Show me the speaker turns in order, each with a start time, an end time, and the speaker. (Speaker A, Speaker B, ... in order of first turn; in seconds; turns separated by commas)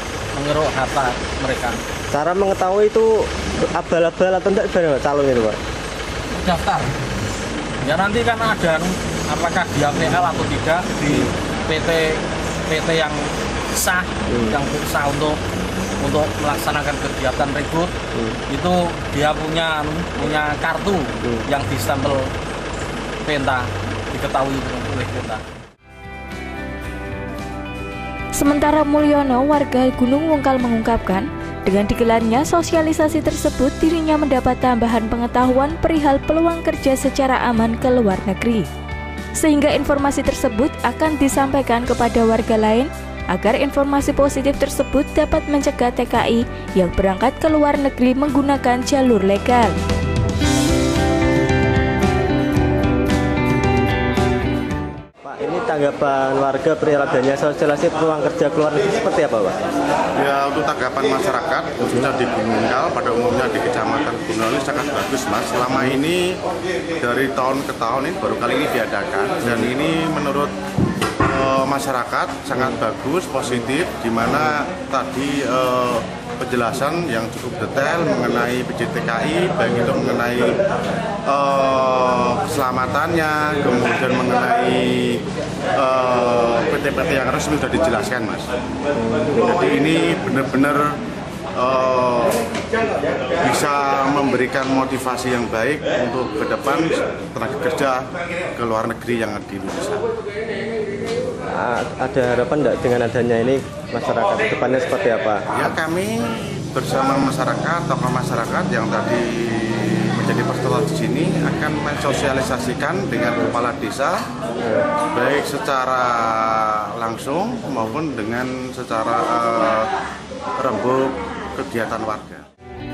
Speaker A: 0.3-1.8, Speaker B: 2.1-5.6, Speaker A: 6.3-6.9, Speaker A: 7.8-15.4, Speaker B: 14.3-14.6, Speaker A: 16.0-17.9, Speaker A: 18.5-22.3, Speaker A: 23.2-25.4, Speaker C: 28.4-38.7, Speaker C: 39.4-49.8, Speaker B: 55.2-59.6, Speaker D: 60.1-66.2, Speaker B: 65.7-66.0, Speaker D: 67.0-70.5, Speaker B: 69.4-69.7, Speaker D: 71.2-80.6, Speaker D: 81.2-85.2, Speaker D: 85.7-88.5, Speaker B: 89.0-89.4, Speaker D: 89.5-90.9, Speaker D: 91.5-92.4, Speaker D: 93.4-100.0, Speaker B: 101.5-105.5, Speaker D: 105.5-114.2, Speaker D: 115.1-119.9, Speaker D: 120.6-122.4